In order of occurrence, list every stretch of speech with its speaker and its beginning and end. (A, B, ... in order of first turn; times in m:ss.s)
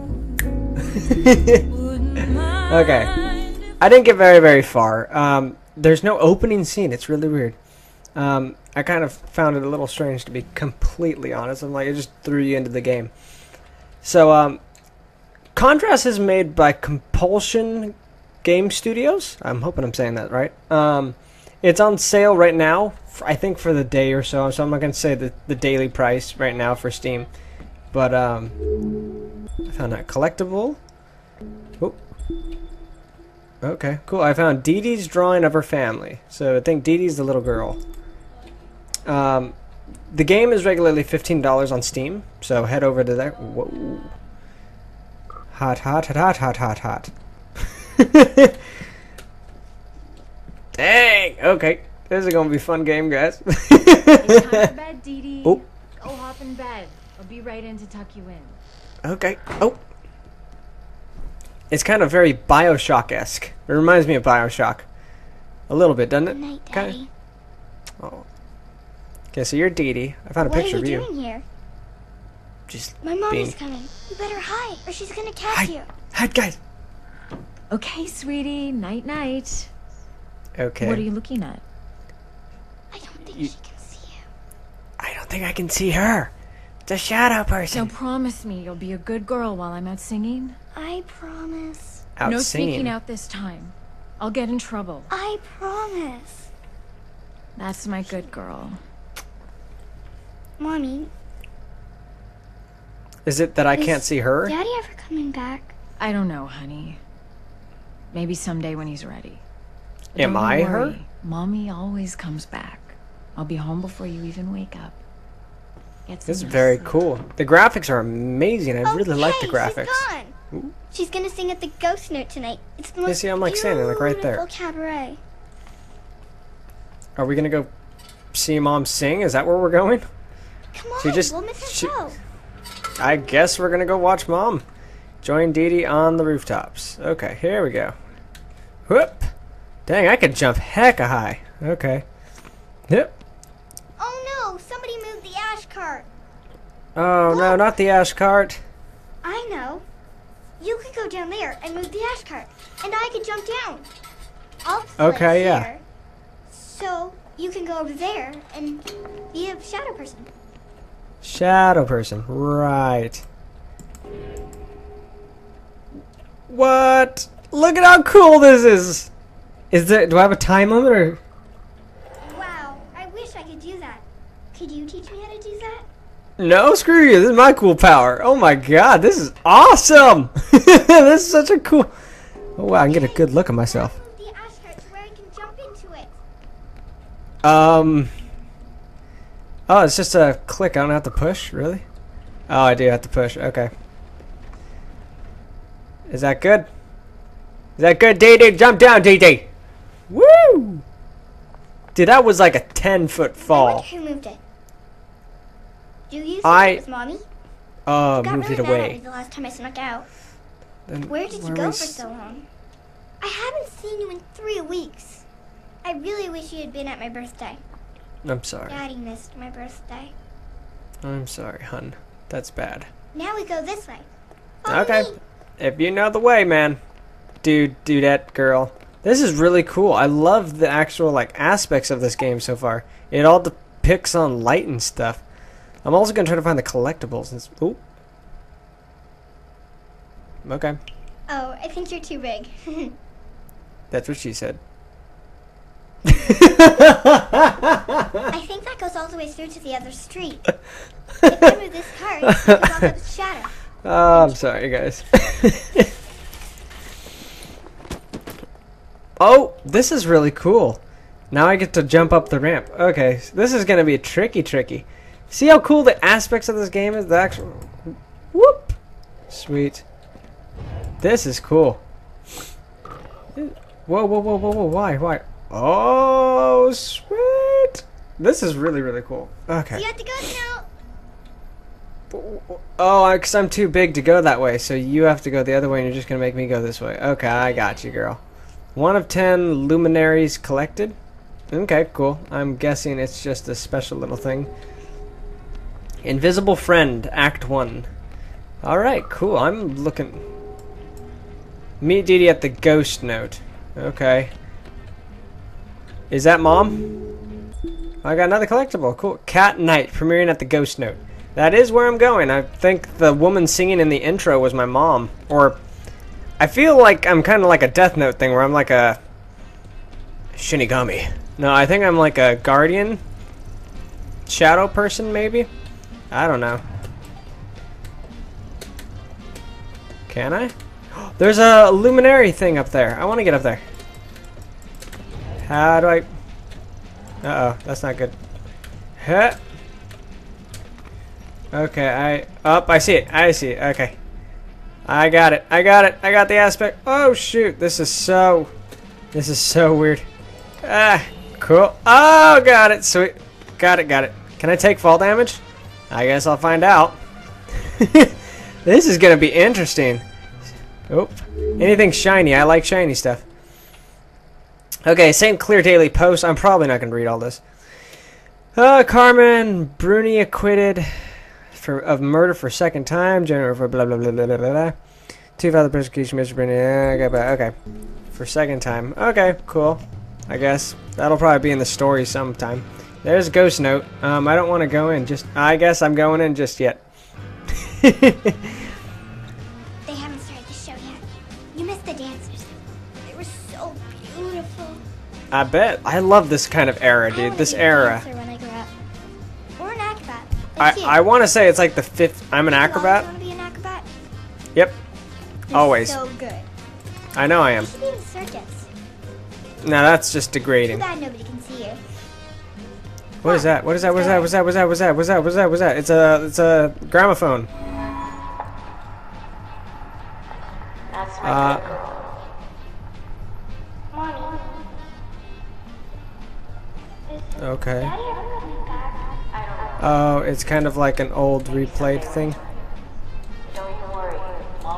0:00.8-0:01.6 A
0:01.7-0:03.8 B
0:02.7-0:03.2 A
0:03.8-0:07.6 A
0:08.2-0:13.1 A
0:14.0-0:14.6 A
0:15.6-0:27.3 A
0:27.9-0:28.6 A
0:29.7-0:30.8 A
0:33.6-0:37.8 A
0:39.1-0:39.6 A
0:40.1-0:44.1 A
0:45.5-0:47.1 A
0:47.8-0:48.5 A
0:50.8-0:54.7 A
0:54.2-0:58.6 B
0:59.0-0:59.8 A
1:01.7-1:04.9 A
1:05.7-1:07.0 A
1:06.3-1:07.1 C
1:08.0-1:08.3 A
1:09.3-1:11.1 A
1:10.4-1:11.4 C
1:12.7-1:13.6 A
1:13.0-1:15.9 C
1:15.5-1:16.6 A
1:17.7-1:19.7 B
1:20.6-1:21.1 A
1:20.8-1:21.6 B
1:22.9-1:24.2 C
1:25.0-1:26.3 A
1:26.9-1:27.9 A
1:27.7-1:30.6 B
1:30.8-1:32.0 C
1:32.2-1:33.0 A
1:32.2-1:35.1 B
1:35.1-1:36.5 C
1:37.6-1:38.8 B
1:40.6-1:41.1 C
1:43.3-1:44.6 A
1:43.7-1:45.8 C
1:46.0-1:47.0 B
1:48.1-1:49.4 B
1:50.1-1:55.0 B
1:50.2-1:51.0 A
1:56.1-1:57.1 B
1:56.3-2:00.7 A
1:58.8-2:00.4 C
2:00.9-2:05.2 C
2:03.1-2:04.4 A
2:07.2-2:07.7 A
2:08.3-2:10.0 A
2:10.7-2:12.2 C
2:11.0-2:11.9 A
2:13.0-2:14.6 A
2:15.2-2:18.0 A
2:18.9-2:19.3 A
2:19.9-2:22.0 A
2:22.9-2:23.2 A
2:24.0-2:26.1 C
2:27.0-2:28.6 A
2:27.3-2:27.6 C
2:29.2-2:29.8 C
2:30.6-2:33.9 C
2:34.6-2:35.8 C
2:35.0-2:35.7 A
2:36.5-2:40.3 C
2:41.2-2:43.2 A
2:46.5-2:49.1 A
2:49.7-2:51.2 A
2:52.3-2:55.8 C
2:56.4-3:01.9 A
3:02.6-3:03.9 A
3:02.9-3:06.2 C
3:07.4-3:08.1 A
3:09.7-3:11.8 A
3:12.5-3:13.7 A
3:16.1-3:16.7 A
3:17.8-3:19.5 A
3:20.1-3:20.8 A
3:22.0-3:23.9 A
3:23.4-3:24.4 C
3:26.1-3:27.2 C
3:26.4-3:26.8 A
3:27.9-3:29.0 A
3:28.2-3:30.1 C
3:30.9-3:32.0 A
3:31.1-3:32.5 C
3:33.2-3:35.2 C
3:35.8-3:37.6 C
3:38.2-3:38.8 A
3:38.7-3:40.1 C
3:41.0-3:42.9 A
3:43.1-3:44.1 C
3:44.6-3:45.2 C
3:44.7-3:46.8 A
3:47.4-3:55.2 A
3:55.8-3:57.8 A
4:00.4-4:00.8 A
4:01.3-4:03.0 C
4:03.9-4:04.6 A
4:06.0-4:08.2 A
4:08.3-4:10.5 C
4:11.2-4:11.5 A
4:11.3-4:13.5 C
4:12.2-4:12.8 A
4:13.8-4:15.9 A
4:14.1-4:14.4 C
4:19.2-4:28.8 A
4:29.3-4:29.8 A
4:31.0-4:31.8 A
4:33.4-4:39.8 A
4:39.7-4:40.7 C
4:42.1-4:48.2 A
4:48.8-4:51.0 A
4:51.5-4:54.5 A
4:56.0-4:57.9 A
4:58.6-5:00.2 A
5:01.8-5:04.3 A
5:06.1-5:07.0 A
5:08.0-5:15.6 A
5:16.4-5:19.0 A
5:20.4-5:23.0 A
5:24.3-5:25.5 A
5:26.1-5:26.6 A
5:30.1-5:33.6 A
5:35.4-5:36.1 A
5:37.2-5:38.2 A
5:39.0-5:39.4 A
5:41.5-5:44.0 A
5:44.9-5:48.5 A
5:49.1-5:50.1 A
5:50.6-5:57.0 A
5:57.6-5:58.1 A
5:58.6-6:00.0 A
6:00.9-6:03.2 A
6:04.8-6:07.4 A
6:08.6-6:10.9 A
6:11.5-6:14.8 A
6:15.4-6:17.5 A
6:18.1-6:26.8 A
6:27.6-6:28.4 A
6:29.8-6:32.5 C
6:33.0-6:34.8 C
6:35.3-6:38.0 A
6:37.1-6:38.7 C
6:39.6-6:41.0 C
6:40.6-6:43.1 A
6:42.5-6:43.9 C
6:45.5-6:46.5 C
6:45.5-6:46.0 A
6:47.2-6:47.7 A
6:47.6-6:48.7 C
6:49.6-6:50.8 A
6:50.7-6:51.8 C
6:53.2-6:54.3 C
6:53.2-6:57.5 A
7:01.2-7:01.7 A
7:07.4-7:08.0 A
7:09.8-7:12.4 A